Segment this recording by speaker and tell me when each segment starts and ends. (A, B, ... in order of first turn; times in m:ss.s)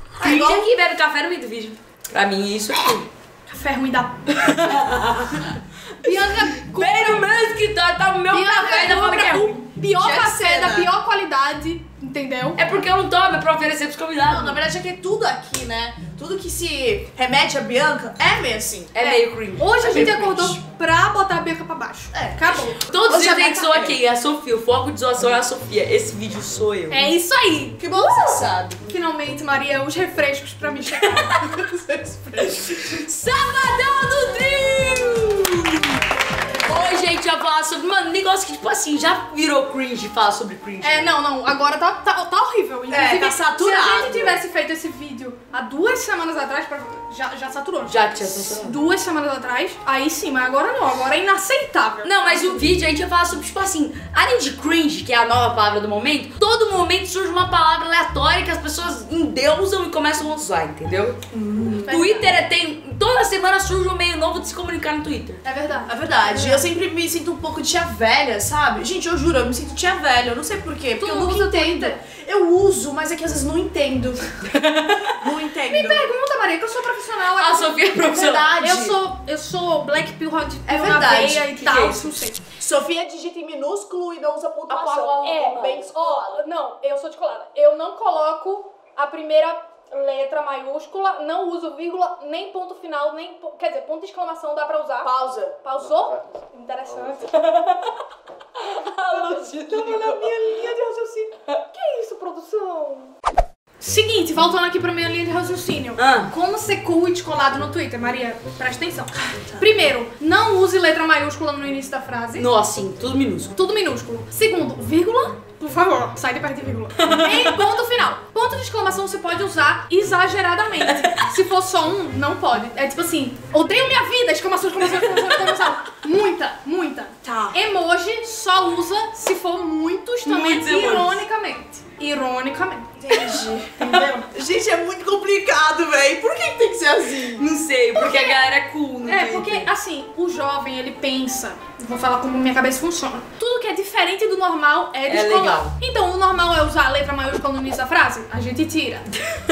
0:00.2-0:00.7 A
0:00.2-0:03.1 B
0:03.5-0:04.6 C
0:04.4-0:05.5 B
0:06.0-0:07.4 C
0:06.0-0:09.7 B
0:08.3-0:12.7 C
0:10.0-0:10.9 A
0:12.6-0:14.6 B
0:14.3-0:18.9 A
0:18.9-0:20.6 B
0:19.0-0:23.7 C
0:19.9-0:20.4 A
0:22.1-0:24.0 A
0:22.8-0:27.1 B
0:26.9-0:27.8 C
0:27.8-0:28.8 A
0:28.9-0:32.8 C
0:32.7-0:36.0 B
0:36.6-0:41.1 B
0:40.8-0:52.6 C
0:42.9-0:44.4 A
0:47.9-0:48.8 B
0:52.0-1:01.2 B
1:01.3-1:01.9 A
1:01.8-1:02.4 C
1:01.9-1:05.4 B
1:05.4-1:06.7 C
1:05.9-1:14.4 A
1:11.0-1:12.0 C
1:14.5-1:15.2 B
1:15.0-1:16.1 A
1:15.7-1:22.4 C
1:17.4-1:18.5 B
1:18.1-1:19.0 A
1:20.7-1:21.5 A
1:21.3-1:22.1 B
1:22.6-1:26.4 A
1:24.7-1:25.8 B
1:25.2-1:37.5 C
1:35.0-1:35.6 A
1:37.4-1:37.9 B
1:38.6-1:40.6 B
1:39.1-1:43.1 C
1:43.8-1:52.5 C
1:46.0-1:46.3 B
1:49.3-1:49.6 A
1:52.4-1:53.5 B
1:53.6-2:13.2 C
1:57.0-1:57.6 B
2:00.9-2:01.2 B
2:07.2-2:07.6 A
2:10.3-2:11.2 B
2:13.0-2:17.5 A
2:17.4-2:19.7 B
2:18.0-2:18.4 C
2:19.0-2:29.1 C
2:25.1-2:25.7 B